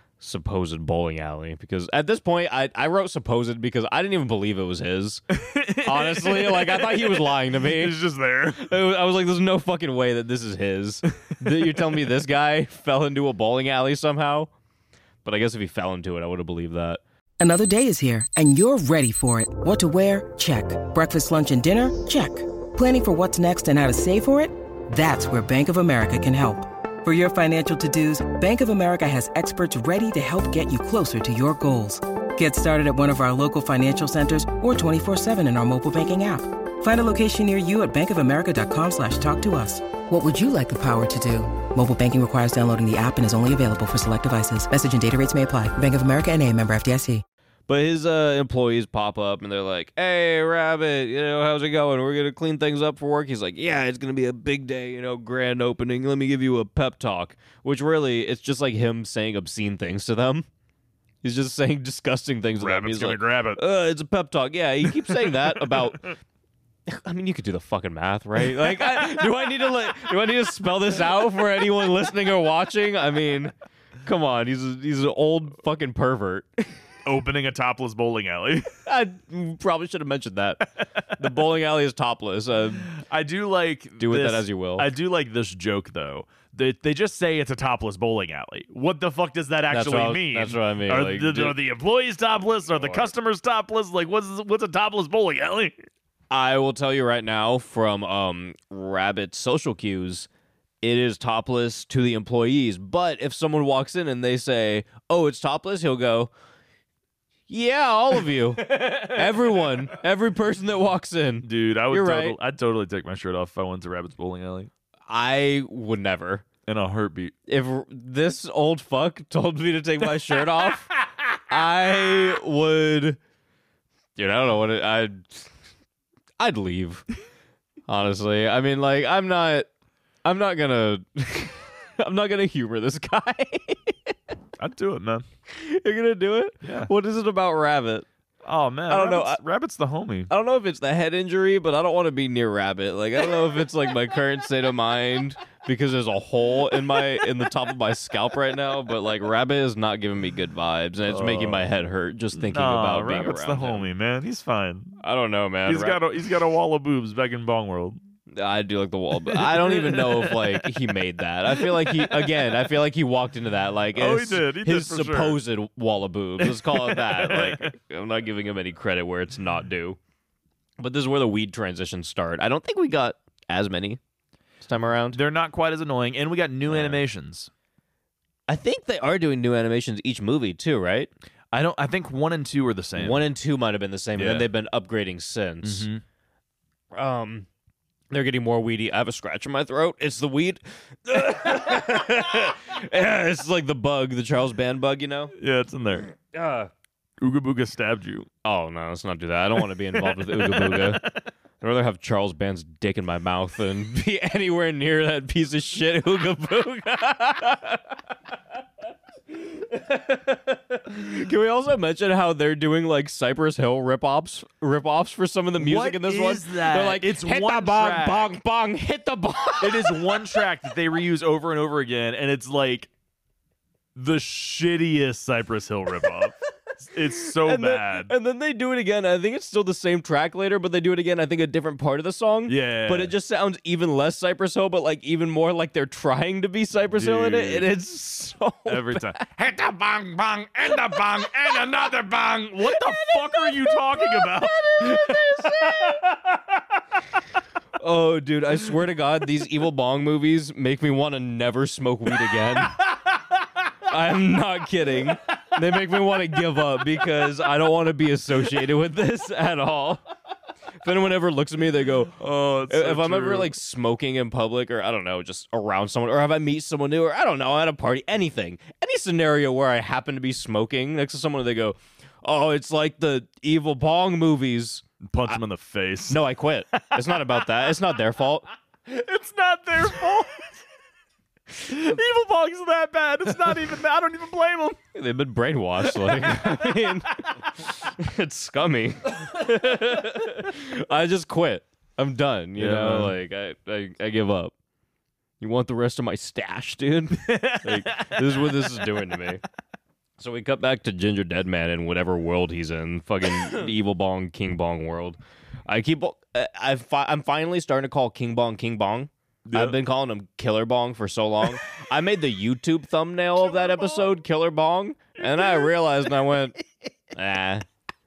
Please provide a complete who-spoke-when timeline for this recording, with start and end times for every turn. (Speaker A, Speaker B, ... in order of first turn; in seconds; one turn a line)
Speaker A: 0.2-5.2
Speaker B: 5.3-8.7
Speaker A: 5.8-8.0
Speaker A: 8.6-14.5
Speaker A: 15.2-17.0
Speaker C: 17.4-47.2
Speaker A: 47.7-60.5
Speaker A: 61.2-66.1
Speaker B: 62.6-63.6
Speaker B: 65.3-65.8
Speaker A: 66.9-73.5
Speaker A: 74.0-76.7
Speaker B: 77.1-78.7
Speaker A: 78.9-82.9
Speaker B: 82.9-95.7
Speaker A: 84.0-84.9
Speaker A: 89.7-91.6
Speaker A: 92.8-93.1
Speaker A: 96.3-100.3
Speaker A: 100.8-106.3
Speaker A: 107.5-112.4
Speaker B: 111.4-114.7
Speaker A: 115.1-116.5
Speaker B: 116.7-117.3
Speaker A: 117.5-120.9
Speaker A: 121.5-123.2
Speaker A: 124.2-125.5
Speaker A: 126.4-127.0
Speaker A: 127.9-129.7
Speaker A: 130.2-134.2
Speaker B: 134.6-135.2
Speaker A: 135.5-138.1
Speaker B: 136.6-136.9
Speaker B: 138.4-140.3
Speaker A: 138.9-139.4
Speaker A: 140.3-153.9
Speaker B: 151.1-151.7
Speaker B: 152.3-155.0
Speaker A: 155.0-156.0
Speaker B: 155.7-158.0
Speaker A: 158.3-170.0
Speaker B: 159.3-160.7
Speaker B: 161.6-162.5
Speaker B: 163.9-165.4
Speaker B: 166.4-167.7
Speaker A: 170.8-174.0
Speaker A: 174.6-175.2
Speaker B: 175.1-177.5
Speaker A: 176.7-177.0
Speaker A: 178.5-181.1
Speaker B: 181.5-183.3
Speaker A: 183.0-185.9
Speaker B: 184.2-184.5
Speaker B: 185.6-186.0
Speaker A: 186.9-187.5
Speaker A: 188.1-195.3
Speaker B: 195.3-196.1
Speaker A: 196.3-196.7
Speaker B: 197.2-198.3
Speaker A: 198.4-201.1
Speaker B: 200.0-201.1
Speaker A: 201.6-207.8
Speaker A: 209.3-220.4
Speaker B: 215.6-218.3
Speaker B: 219.6-222.9
Speaker B: 224.0-228.1
Speaker A: 227.2-239.3
Speaker B: 232.5-233.1
Speaker B: 236.9-237.7
Speaker B: 238.7-245.7
Speaker A: 240.7-241.8
Speaker A: 242.6-246.2
Speaker A: 247.8-252.8
Speaker A: 253.9-260.0
Speaker A: 260.8-262.2
Speaker B: 262.2-263.5
Speaker A: 262.7-275.4
Speaker B: 275.1-276.2
Speaker A: 276.1-278.5
Speaker B: 276.7-277.7
Speaker B: 278.9-280.6
Speaker B: 281.6-284.8
Speaker A: 284.9-294.5
Speaker B: 285.8-286.9
Speaker B: 292.6-293.1
Speaker A: 295.4-299.4
Speaker B: 297.2-298.8
Speaker A: 300.2-316.6
Speaker B: 309.5-309.8
Speaker A: 317.1-317.6